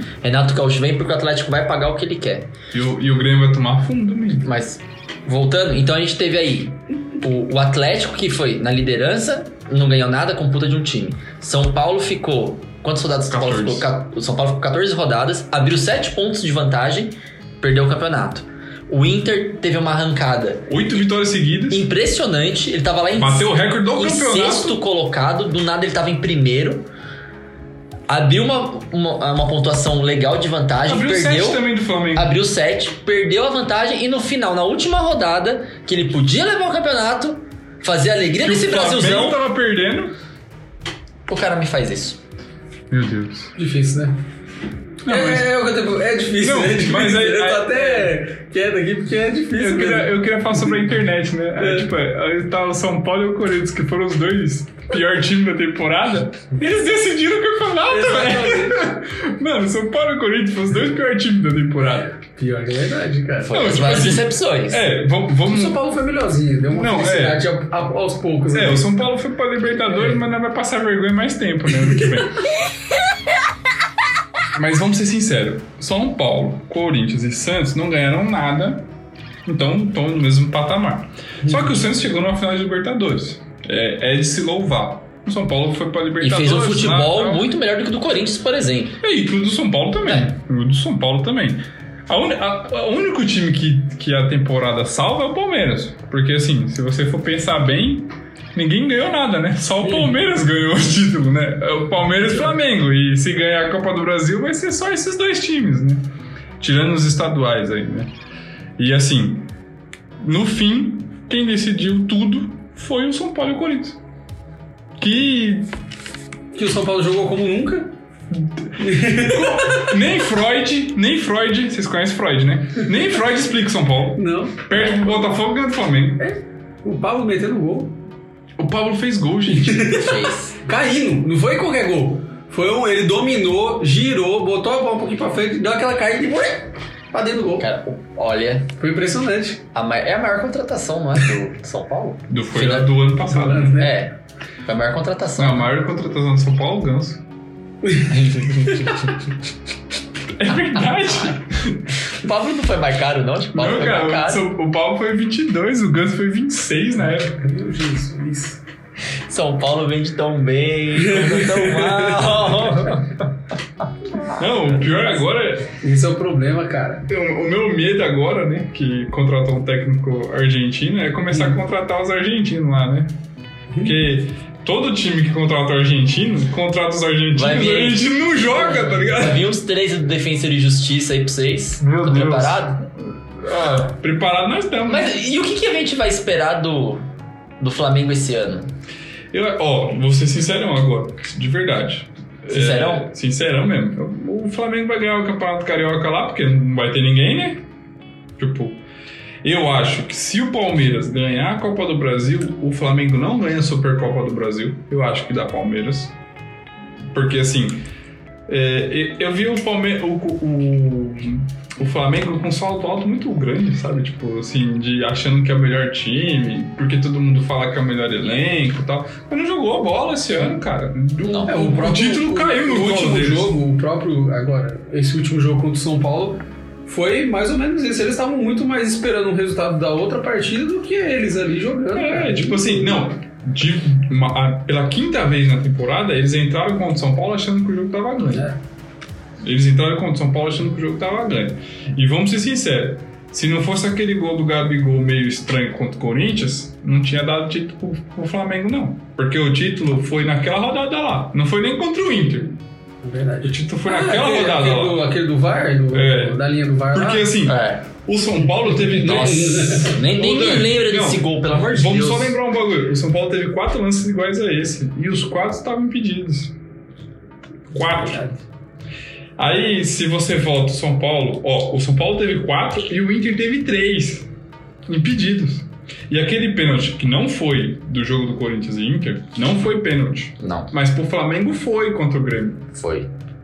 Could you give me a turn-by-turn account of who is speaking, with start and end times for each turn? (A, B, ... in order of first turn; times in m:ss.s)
0:00.2-0:02.5 A
0:02.7-0:04.5 B
0:04.4-0:20.7 A
0:13.3-0:13.9 B
0:20.7-0:21.8 B
0:21.7-0:26.9 A
0:23.2-0:24.8 B
0:28.1-0:39.4 A
0:30.8-0:32.3 B
0:38.4-0:40.2 B
0:41.3-0:42.2 A
0:42.9-0:43.5 B
0:43.6-0:44.2 C
0:45.0-0:45.5 B
0:45.0-0:50.5 C
0:46.4-0:48.1 B
0:49.6-1:02.1 B
0:51.6-0:51.9 C
0:57.9-0:58.9 C
1:01.8-1:03.6 C
1:03.4-1:04.8 A
1:03.5-1:05.8 B
1:05.4-1:09.0 C
1:06.7-1:07.4 B
1:08.5-1:12.4 B
1:09.8-1:10.2 C
1:14.5-1:18.9 B
1:19.4-1:27.5 B
1:26.2-1:29.0 A
1:29.0-1:48.1 B
1:48.8-1:49.5 B
1:50.2-1:54.0 B
1:55.0-1:55.7 B
1:56.5-1:57.9 C
1:58.8-1:59.9 C
1:59.2-2:06.2 B
2:04.2-2:05.2 C
2:06.2-2:08.0 C
2:08.6-2:09.9 B
2:09.5-2:17.6 C
2:09.9-2:10.5 A
2:17.6-2:18.7 A
2:18.8-2:19.6 C
2:19.7-2:22.9 A
2:22.3-2:23.8 B
2:23.2-2:24.0 C
2:23.8-2:25.7 A
2:25.4-2:27.2 B
2:27.8-2:28.9 C
2:28.1-2:28.9 A
2:30.3-2:31.8 B
2:32.2-2:34.4 A
2:33.5-2:37.4 B
2:37.2-2:38.6 C
2:39.3-2:43.2 A
2:41.0-2:42.6 C
2:44.3-2:45.7 B
2:44.8-2:45.1 C
2:45.7-2:47.0 C
2:47.1-2:53.1 B
2:51.3-2:51.6 C
2:53.8-2:59.5 B
2:57.3-3:02.8 A
3:01.8-3:02.7 B
3:03.3-3:05.2 B
3:04.9-3:07.0 A
3:07.6-3:08.7 A
3:09.3-3:17.6 B
3:12.5-3:13.1 A
3:18.4-3:18.8 B
3:19.4-3:26.1 B
3:27.1-3:27.8 B
3:28.5-3:43.5 B
3:41.2-3:41.5 A
3:41.4-3:53.0 C
3:51.9-3:58.5 B
3:58.2-3:58.6 C
3:59.4-4:12.6 B
4:13.0-4:17.3 C
4:13.4-4:15.0 B
4:15.9-4:16.4 B
4:16.9-4:26.5 B
4:17.4-4:17.8 A
4:18.7-4:20.0 C
4:19.0-4:22.4 A
4:27.7-4:28.2 B
4:27.8-4:28.4 C
4:29.4-4:34.3 B
4:34.9-4:42.7 B
4:40.4-4:40.7 A
4:42.7-4:43.1 A